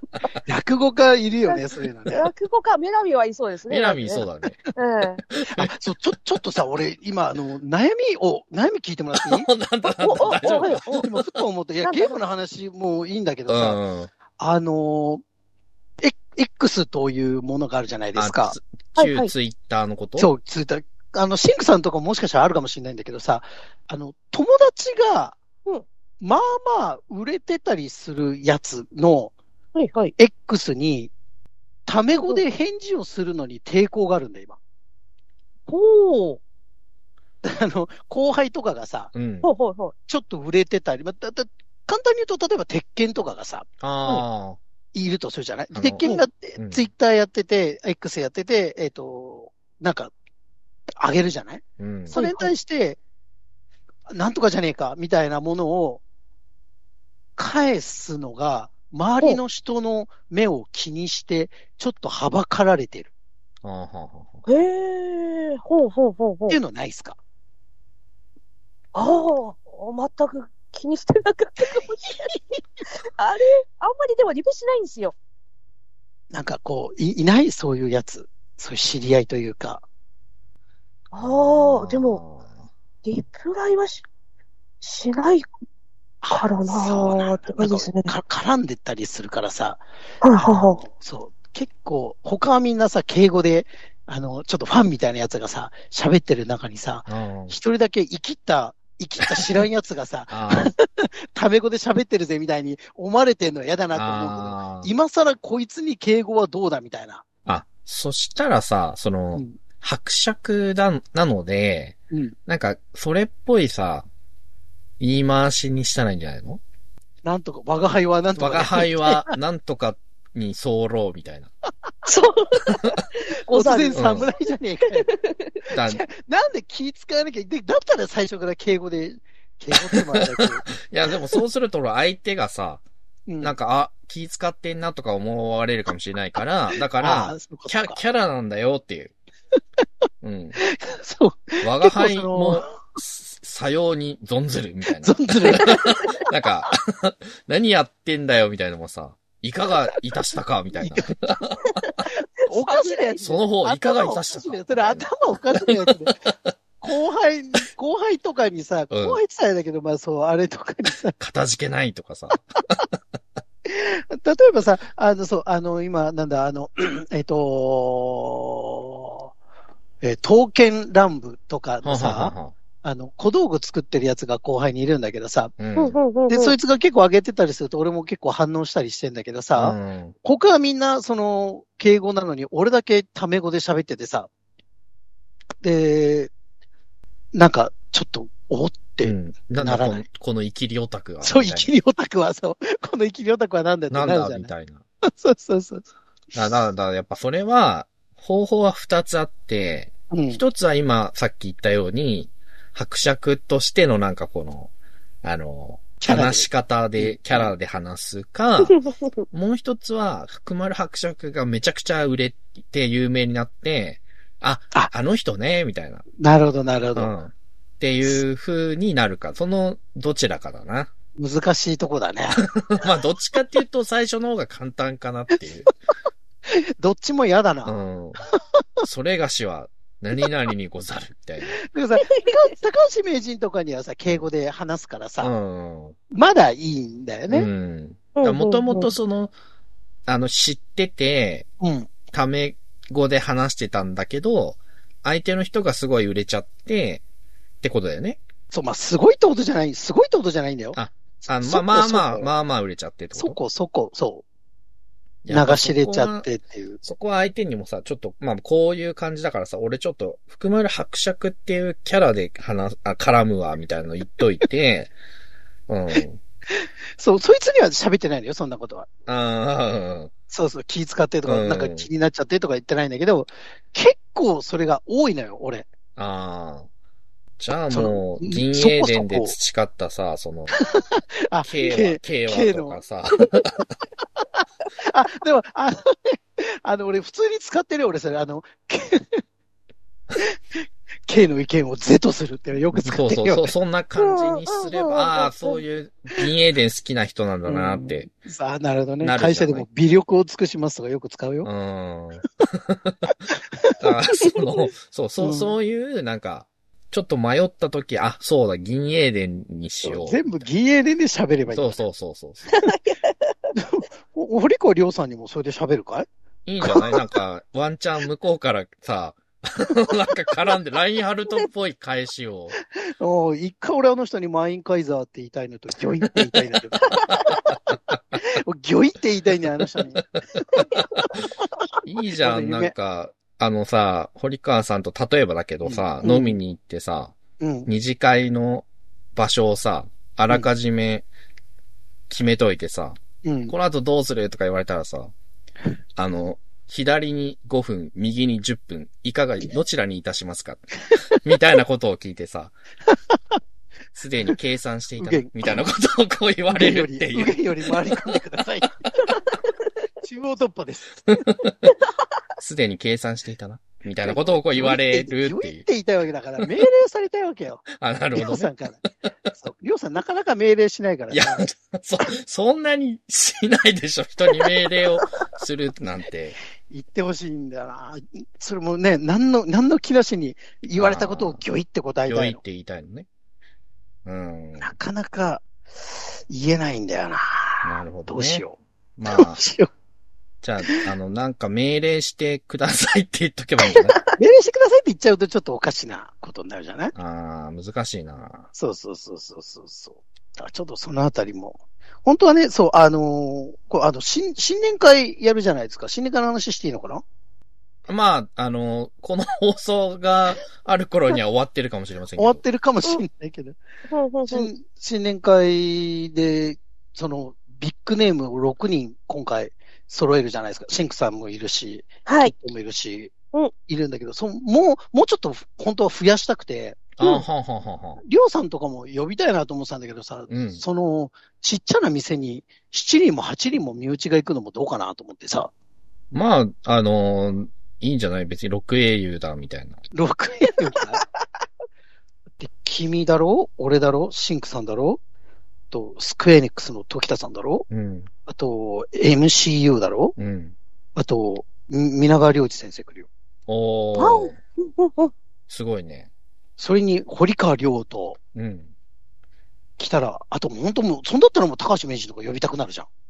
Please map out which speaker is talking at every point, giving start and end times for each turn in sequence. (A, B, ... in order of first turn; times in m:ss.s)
0:00.5-0:02.3 A
0:01.5-0:05.2 B
0:03.7-0:04.6 C
0:05.3-0:05.7 C
0:05.5-0:09.5 A
0:09.1-0:11.3 C
0:09.9-0:11.1 B
0:10.2-0:13.8 A
0:11.8-0:12.2 B
0:13.5-0:14.1 C
0:14.4-0:15.2 A
0:16.0-0:18.6 A
0:18.2-0:20.3 C
0:19.0-0:19.3 B
0:20.2-0:25.4 A
0:26.2-0:29.3 A
0:29.8-0:30.1 B
0:30.2-0:31.1 A
0:31.9-0:34.6 A
0:35.7-0:36.4 B
0:37.4-0:39.1 A
0:39.1-0:39.5 C
0:39.4-0:39.9 B
0:40.1-0:43.7 A
0:43.8-0:44.6 C
0:44.9-0:50.1 A
0:45.7-0:46.9 C
0:51.0-0:53.0 A
0:51.8-0:52.2 C
0:52.1-0:52.5 B
0:54.1-0:56.0 A
0:57.4-1:03.1 A
1:03.6-1:04.5 C
1:04.5-1:06.6 B
1:06.5-1:07.2 A
1:09.0-1:12.4 B
1:13.1-1:15.2 B
1:16.3-1:19.8 A
1:21.1-1:22.2 B
1:21.2-1:22.7 C
1:23.0-1:24.0 B
1:24.8-1:25.5 B
1:26.2-1:29.8 A
1:26.3-1:28.1 B
1:30.2-1:30.8 B
1:30.3-1:47.2 A
1:37.1-1:37.6 C
1:39.3-1:39.6 C
1:40.3-1:40.7 C
1:43.9-1:44.9 C
1:47.5-1:54.1 C
1:52.1-1:52.4 A
1:55.0-1:56.6 C
1:57.2-1:59.3 A
1:58.4-2:01.5 C
2:02.0-2:04.3 B
2:02.7-2:03.0 C
2:03.5-2:05.1 A
2:03.9-2:04.3 C
2:04.9-2:05.6 B
2:05.7-2:10.7 A
2:05.7-2:06.0 C
2:09.7-2:12.8 C
2:13.3-2:13.5 A
2:13.4-2:19.1 C
2:17.0-2:18.0 A
2:20.2-2:20.6 C
2:20.6-2:22.7 A
2:21.6-2:31.9 C
2:25.0-2:26.2 A
2:30.8-2:31.1 A
2:32.4-2:36.2 A
2:32.5-2:33.2 B
2:33.2-2:36.5 C
2:36.8-2:41.2 A
2:38.9-2:39.2 C
2:41.2-2:43.0 C
2:43.6-2:49.3 A
2:50.0-2:55.6 A
2:51.8-2:52.5 C
2:55.6-2:56.0 C
2:55.8-2:56.6 B
2:56.3-3:04.3 A
2:59.6-3:00.2 C
3:05.6-3:06.3 A
3:07.3-3:10.1 A
3:09.0-3:11.7 C
3:11.2-3:14.5 A
3:13.9-3:14.8 C
3:15.0-3:15.9 A
3:16.3-3:24.7 C
3:20.1-3:20.4 A
3:25.2-3:28.8 C
3:26.0-3:27.5 A
3:29.3-3:36.1 C
3:36.2-3:37.1 A
3:37.0-3:40.9 C
3:41.2-3:42.4 A
3:42.4-3:45.7 C
3:46.5-3:47.8 A
3:47.6-3:48.2 C
3:48.6-3:48.8 A
3:48.8-3:51.6 C
3:51.6-3:55.3 A
3:55.2-3:56.0 C
3:56.1-3:57.5 A
3:57.3-3:59.3 C
3:58.2-3:58.9 B
4:00.1-4:01.5 C
4:01.6-4:01.9 A
4:02.1-4:07.0 C
4:07.6-4:08.2 C
4:08.5-4:12.3 A
4:10.8-4:13.4 C
4:13.2-4:14.2 A
4:15.2-4:16.3 C
4:15.3-4:16.8 A
4:16.8-4:24.9 C
4:25.7-4:26.2 C
4:26.0-4:28.9 A
4:29.1-4:30.1 C
4:30.3-4:35.7 A
4:31.2-4:31.9 C
4:36.0-4:36.7 C
4:37.4-4:40.6 C
4:37.7-4:39.4 A
4:40.6-4:42.8 A
4:41.4-4:43.7 C
4:44.0-4:49.2 A
4:50.2-4:53.5 A
4:52.8-4:58.1 C
4:54.0-4:55.6 B
4:57.5-5:01.5 A
4:59.0-4:59.7 C
5:01.4-5:03.2 C
5:03.8-5:10.5 C
5:05.2-5:05.6 A
5:09.8-5:11.8 A
5:11.5-5:12.6 C
5:12.6-5:13.5 B
5:13.6-5:16.1 A
5:16.5-5:22.6 C
5:16.6-5:17.0 A
5:22.7-5:31.6 A
5:26.1-5:26.5 C
5:27.0-5:28.0 C
5:30.0-5:31.3 C
5:31.8-5:37.2 C
5:32.2-5:32.7 A
5:35.6-5:36.4 A
5:37.4-5:37.7 A
5:37.7-5:41.1 C
5:42.1-5:45.1 C
5:43.2-5:43.5 A
5:46.0-5:52.5 C
5:52.9-5:53.4 A
5:53.9-5:58.2 C
5:55.0-5:55.6 A
5:56.5-5:59.2 A
6:00.0-6:01.3 A
6:01.1-6:01.6 C
6:02.4-6:05.6 C
6:04.0-6:08.8 A
6:07.8-6:08.5 C
6:09.4-6:11.4 A
6:11.1-6:16.4 C
6:16.7-6:22.4 A
6:20.8-6:21.4 C
6:22.1-6:23.1 C
6:24.0-6:24.7 C
6:24.6-6:25.4 A
6:26.3-6:28.6 A
6:27.6-6:28.4 C
6:29.0-6:29.4 C
6:29.1-6:29.7 A
6:30.4-6:34.0 C
6:34.1-6:36.9 A
6:37.0-6:38.5 C
6:38.6-6:47.0 A
6:47.9-6:52.4 C
6:52.2-6:53.6 A
6:53.9-6:54.5 B
6:54.3-7:03.1 A
7:02.1-7:02.3 B
7:03.7-7:06.8 A
7:07.0-7:08.0 C
7:08.0-7:15.5 A
7:10.3-7:10.6 C
7:16.1-7:19.8 C
7:19.9-7:21.0 A
7:22.4-7:25.0 A
7:25.7-7:27.7 A
7:27.7-7:28.1 C
7:28.3-7:30.2 A
7:30.2-7:30.6 C
7:31.0-7:33.1 A
7:33.5-7:34.4 C
7:34.0-7:35.1 B
7:35.5-7:36.1 C
7:36.6-7:38.2 A
7:38.4-7:38.7 C
7:39.8-7:42.9 A